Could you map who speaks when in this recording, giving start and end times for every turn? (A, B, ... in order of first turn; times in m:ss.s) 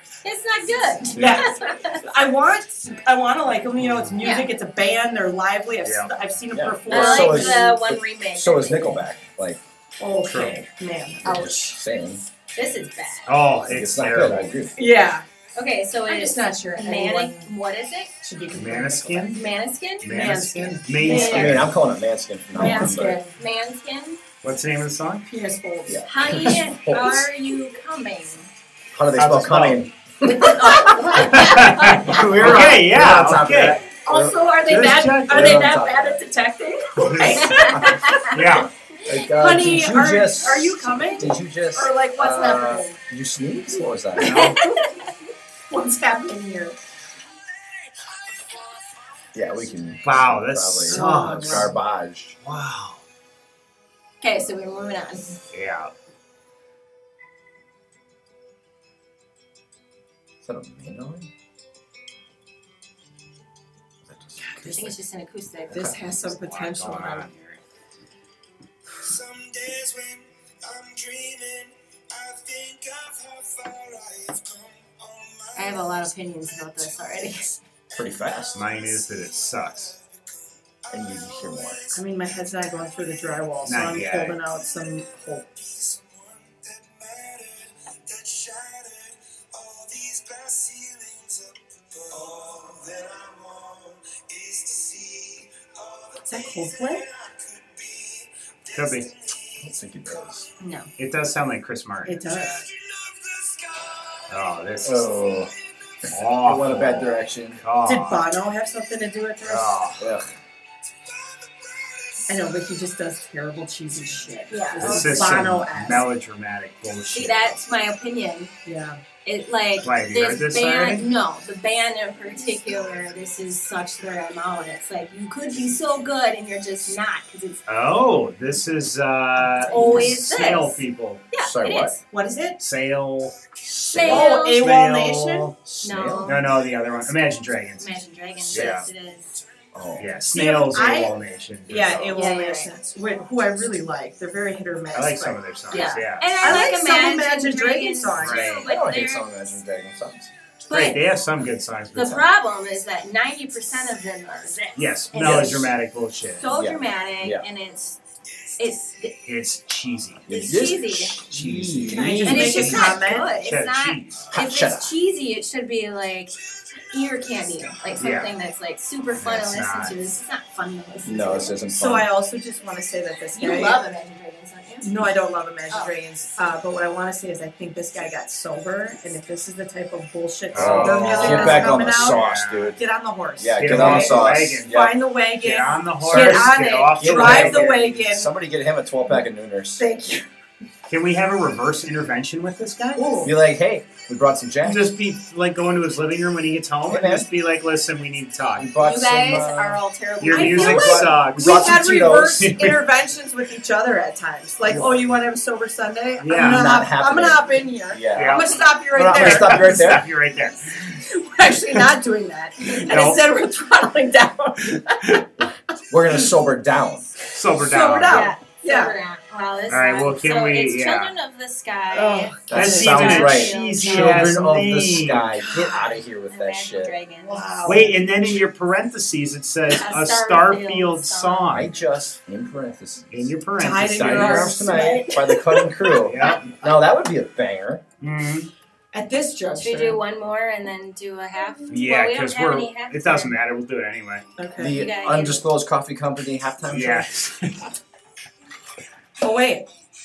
0:00.2-0:02.1 A
0:01.2-0:01.4 B
0:01.2-0:07.8 C
0:03.8-0:04.2 B
0:04.2-0:04.5 A
0:05.8-0:06.2 B
0:06.5-0:09.6 D
0:06.9-0:09.1 A
0:10.0-0:11.8 C
0:10.3-0:10.6 B
0:11.2-0:12.2 D
0:12.5-0:13.3 A
0:13.3-0:14.5 B
0:13.7-0:14.7 D
0:14.8-0:15.3 C
0:15.6-0:18.1 A
0:16.1-0:17.5 C
0:18.2-0:19.4 C
0:18.5-0:19.4 B
0:19.3-0:20.1 A
0:20.0-0:21.8 B
0:20.0-0:21.7 C
0:21.0-0:21.5 A
0:21.2-0:23.2 D
0:22.6-0:23.4 C
0:22.6-0:24.2 A
0:24.4-0:25.3 B
0:25.3-0:26.0 C
0:25.9-0:27.3 D
0:26.0-0:28.5 A
0:28.9-0:30.5 D
0:29.2-0:29.9 B
0:30.2-0:32.3 A
0:30.5-0:31.3 C
0:30.5-0:33.8 B
0:32.0-0:34.5 D
0:34.0-0:38.6 C
0:34.6-0:35.7 B
0:35.2-0:36.2 D
0:37.0-0:38.7 B
0:37.3-0:38.3 A
0:37.7-0:38.2 D
0:39.0-0:44.6 D
0:39.1-0:43.0 C
0:44.2-0:45.1 C
0:44.2-0:45.1 A
0:45.7-0:46.8 C
0:47.6-0:49.4 E
0:49.3-0:52.4 D
0:50.0-0:51.8 B
0:50.9-0:51.7 C
0:52.4-0:53.0 B
0:54.2-0:55.4 A
0:55.5-0:55.9 B
1:00.4-1:01.3 D
1:04.0-1:05.0 D
1:04.6-1:05.9 A
1:05.7-1:06.0 D
1:05.7-1:07.3 C
1:06.2-1:07.6 B
1:09.0-1:17.3 E
1:15.6-1:17.6 A
1:17.9-1:22.0 E
1:18.0-1:18.6 D
1:18.5-1:20.0 B
1:20.9-1:21.8 D
1:21.9-1:25.4 C
1:22.6-1:23.3 E
1:23.7-1:24.4 B
1:24.8-1:40.5 E
1:36.3-1:37.0 C
1:38.7-1:39.1 B
1:39.6-1:40.5 D
1:40.6-1:40.9 A
1:41.0-1:42.4 B
1:42.1-1:42.6 C
1:42.3-1:44.5 E
1:44.3-1:45.1 B
1:44.8-1:45.5 D
1:45.3-1:46.1 E
1:46.1-1:48.3 B
1:46.4-1:47.6 D
1:47.8-1:49.8 C
1:49.4-1:50.0 B
1:50.0-1:50.3 D
1:51.0-1:52.4 E
1:52.3-1:56.1 C
1:54.5-1:55.4 A
1:54.8-1:57.6 B
1:57.1-1:58.5 A
1:58.6-1:59.0 C
1:59.2-2:07.6 A
1:59.8-2:01.1 B
2:07.7-2:11.2 B
2:09.7-2:12.0 A
2:11.4-2:12.0 D
2:12.1-2:12.6 C
2:12.6-2:15.5 B
2:13.9-2:14.7 A
2:14.0-2:15.5 C
2:15.6-2:16.4 D
2:15.8-2:16.4 A
2:16.2-2:18.0 B
2:17.8-2:19.3 A
2:18.5-2:18.9 B
2:19.7-2:20.1 D
2:20.0-2:22.2 B
2:20.3-2:21.2 C
2:21.7-2:28.5 C
2:22.1-2:22.7 A
2:24.9-2:26.4 B
2:25.7-2:29.3 A
2:28.2-2:28.7 B
2:28.6-2:30.3 D
2:30.7-2:31.0 A
2:30.7-2:32.2 B
2:31.9-2:35.7 A
2:32.0-2:32.2 D
2:34.8-2:36.5 B
2:35.2-2:35.7 D
2:36.4-2:38.0 A
2:36.5-2:37.5 D
2:38.6-2:39.2 A
2:39.2-2:40.2 B
2:40.3-2:43.0 D
2:40.3-2:41.2 A
2:41.3-2:44.3 B
2:41.9-2:43.4 C
2:42.2-2:46.4 A
2:44.3-2:44.9 D
2:46.9-2:51.5 A
2:48.0-2:48.3 B
2:49.2-2:50.1 B
2:51.0-2:52.1 D
2:51.7-2:53.8 C
2:53.3-2:55.0 A
2:54.8-3:02.2 C
3:00.5-3:02.8 B
3:00.5-3:02.8 D
3:01.1-3:01.7 A
3:02.8-3:08.3 C
3:03.4-3:05.0 D
3:03.6-3:04.8 B
3:05.4-3:07.9 B
3:06.1-3:06.4 D
3:07.0-3:09.8 D
3:09.8-3:10.3 C
3:10.9-3:13.2 B
3:13.0-3:13.3 C
3:13.2-3:15.0 D
3:14.6-3:18.7 B
3:16.9-3:17.3 D
3:18.6-3:22.5 D
3:18.8-3:21.0 A
3:20.2-3:21.8 B
3:20.3-3:30.0 C
3:22.4-3:22.8 B
3:24.6-3:25.2 D
3:26.2-3:26.7 B
3:26.4-3:30.1 D
3:28.1-3:30.7 B
3:30.9-3:35.5 C
3:32.7-3:33.3 B
3:35.9-3:37.1 D
3:37.3-3:38.3 B
3:37.6-3:39.0 C
3:38.1-3:44.4 A
3:39.7-3:41.1 B
3:41.9-3:43.1 C
3:42.5-3:47.0 D
3:42.5-3:45.4 B
3:45.5-3:47.8 A
3:47.2-3:48.0 C
3:47.6-3:51.7 B
3:49.7-3:51.5 A
3:51.5-3:57.8 D
3:53.1-3:54.6 B
3:53.6-3:55.3 C
3:54.6-3:55.6 A
3:56.0-3:56.4 B
3:58.0-3:58.5 B
3:58.9-4:00.0 C
3:59.6-4:03.4 A
4:01.7-4:04.3 B
4:04.4-4:04.8 C
4:04.6-4:07.1 D
4:04.6-4:05.4 A
4:06.7-4:07.7 B
4:09.2-4:09.7 C